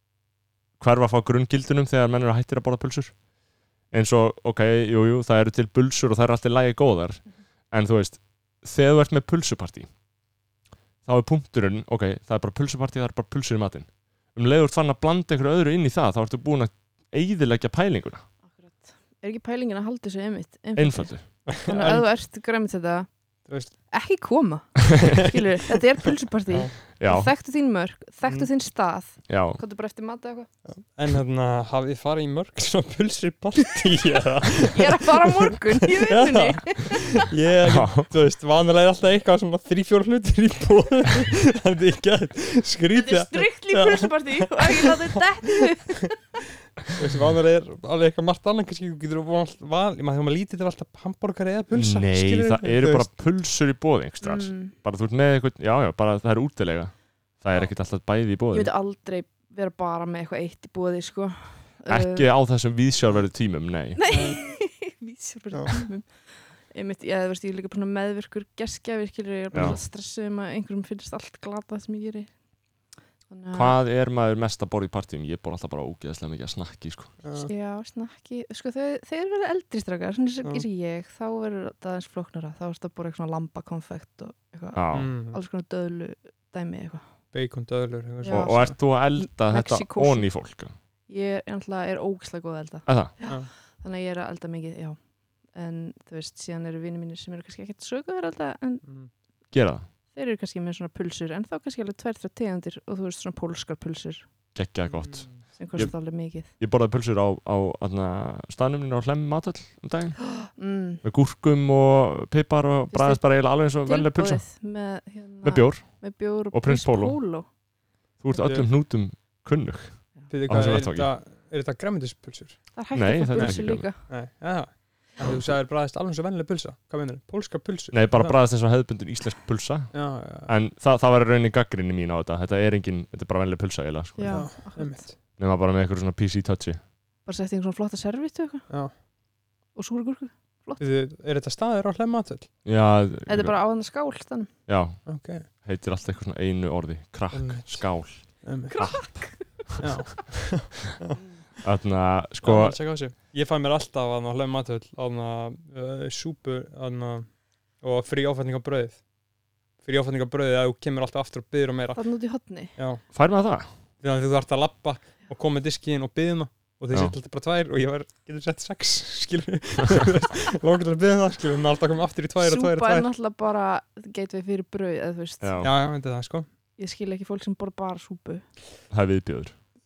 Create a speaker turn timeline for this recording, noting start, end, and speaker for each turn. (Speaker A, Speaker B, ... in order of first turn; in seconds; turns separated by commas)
Speaker A: 0.8-3.1, Speaker A: 3.9-9.9, Speaker A: 11.0-18.2, Speaker B: 18.5-30.5, Speaker A: 20.8-21.4, Speaker C: 21.5-22.1, Speaker C: 23.5-23.7, Speaker C: 26.5-26.8, Speaker A: 27.0-27.3, Speaker A: 29.3-29.6, Speaker C: 30.7-45.7, Speaker B: 34.7-37.2, Speaker A: 37.7-38.1, Speaker B: 42.9-46.3, Speaker C: 47.0-53.1, Speaker A: 51.7-58.7, Speaker B: 54.2-54.7, Speaker B: 58.5-62.3, Speaker A: 61.9-64.0, Speaker B: 64.0-72.3, Speaker C: 64.1-64.4, Speaker C: 65.5-65.9, Speaker C: 69.5-69.8, Speaker B: 73.3-73.8, Speaker A: 73.5-77.2, Speaker C: 77.2-77.5, Speaker B: 77.4-87.0, Speaker A: 84.8-85.1, Speaker C: 84.9-85.4, Speaker C: 87.3-88.8, Speaker B: 88.2-90.5, Speaker A: 88.2-90.7, Speaker B: 91.1-98.9, Speaker A: 92.9-93.1, Speaker C: 98.8-99.1, Speaker A: 99.5-99.9, Speaker B: 100.1-104.3, Speaker A: 104.5-110.5, Speaker C: 104.9-105.4, Speaker B: 105.5-106.5, Speaker B: 110.4-111.0, Speaker A: 111.0-114.4, Speaker B: 112.9-117.5, Speaker A: 115.4-117.2, Speaker A: 118.2-121.1, Speaker C: 118.3-118.7, Speaker C: 120.3-128.4, Speaker B: 122.8-124.1, Speaker A: 122.9-123.9, Speaker A: 127.9-134.7, Speaker C: 129.9-130.5, Speaker B: 134.2-135.1, Speaker C: 134.3-135.2, Speaker A: 135.4-136.8, Speaker B: 137.2-138.7, Speaker C: 138.7-138.9, Speaker B: 139.8-140.8, Speaker C: 140.8-142.5, Speaker A: 142.7-143.6, Speaker B: 143.3-144.5, Speaker A: 144.7-149.6, Speaker C: 145.1-145.5, Speaker C: 147.3-149.3, Speaker B: 148.7-149.8, Speaker C: 149.8-151.2, Speaker A: 151.6-152.8, Speaker C: 152.4-159.1, Speaker C: 159.8-162.0, Speaker B: 161.9-162.8, Speaker C: 162.8-163.1, Speaker A: 163.1-163.7, Speaker C: 164.0-173.1, Speaker A: 166.9-167.2, Speaker B: 172.4-175.5, Speaker A: 175.4-175.7, Speaker C: 175.6-176.5, Speaker B: 176.8-178.5, Speaker A: 178.9-179.6